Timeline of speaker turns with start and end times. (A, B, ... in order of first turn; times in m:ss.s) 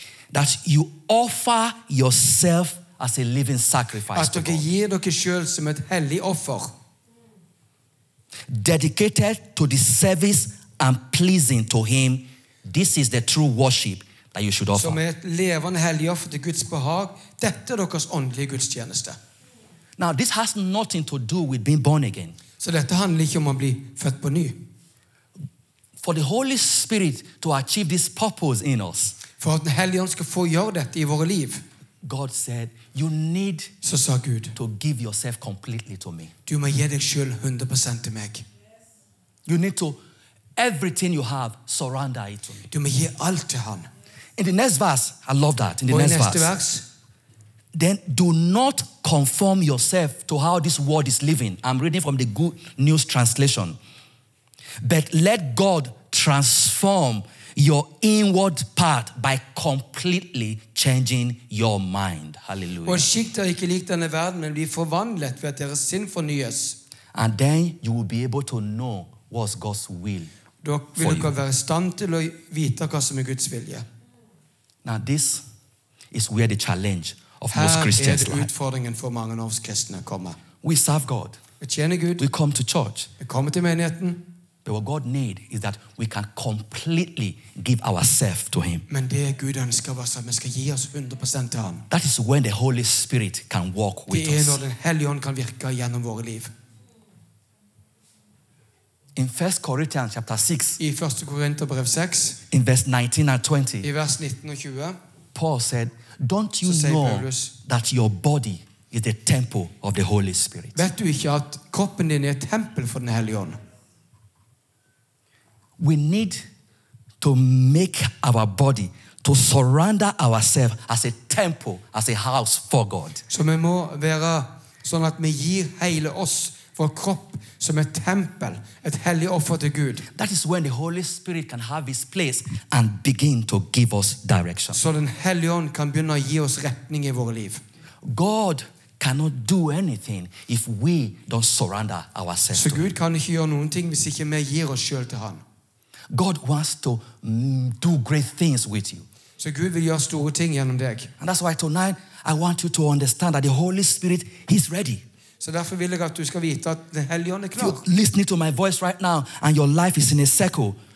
0:00.3-0:04.7 A
0:04.1-0:06.7 B
0:08.5-0:15.0 A
0:14.7-0:19.2 B
0:20.0-0:22.4 A
0:22.6-0:24.6 B
0:26.0-0:29.2 A
0:29.4-0:31.6 B
0:32.0-0:33.7 A
0:33.8-0:34.6 B
0:34.6-0:36.3 A
0:36.4-0:38.4 B
0:39.4-0:40.0 A
0:40.6-0:42.7 A
0:42.7-0:43.9 B
0:44.4-0:46.5 A
0:45.9-0:46.8 B
0:47.7-0:53.8 A
0:54.8-1:03.1 A
1:02.8-1:06.8 B
1:07.1-1:10.3 A
1:10.6-1:13.8 B
1:11.0-1:11.3 A
1:14.8-1:15.4 A
1:16.1-1:18.5 A
1:17.5-1:20.4 B
1:20.6-1:21.4 A
1:21.6-1:22.2 B
1:22.2-1:23.1 A
1:23.2-1:24.2 B
1:24.6-1:28.8 A
1:28.9-1:31.9 B
1:31.9-1:34.6 A
1:34.1-1:36.5 B
1:39.2-1:40.8 A
1:40.8-1:42.4 B
1:42.5-1:43.9 A
1:43.8-1:45.0 B
1:45.3-1:50.8 A
1:46.6-1:47.5 B
1:50.7-1:53.6 B
1:55.8-1:56.4 A
1:57.2-2:03.2 A
2:03.3-2:10.1 B
2:10.1-2:14.8 A
2:14.7-2:17.6 B
2:18.0-2:22.9 A
2:22.5-2:25.4 B
2:26.1-2:29.1 A
2:29.4-2:31.1 B
2:31.2-2:35.0 A
2:35.4-2:37.8 B
2:37.6-2:40.8 A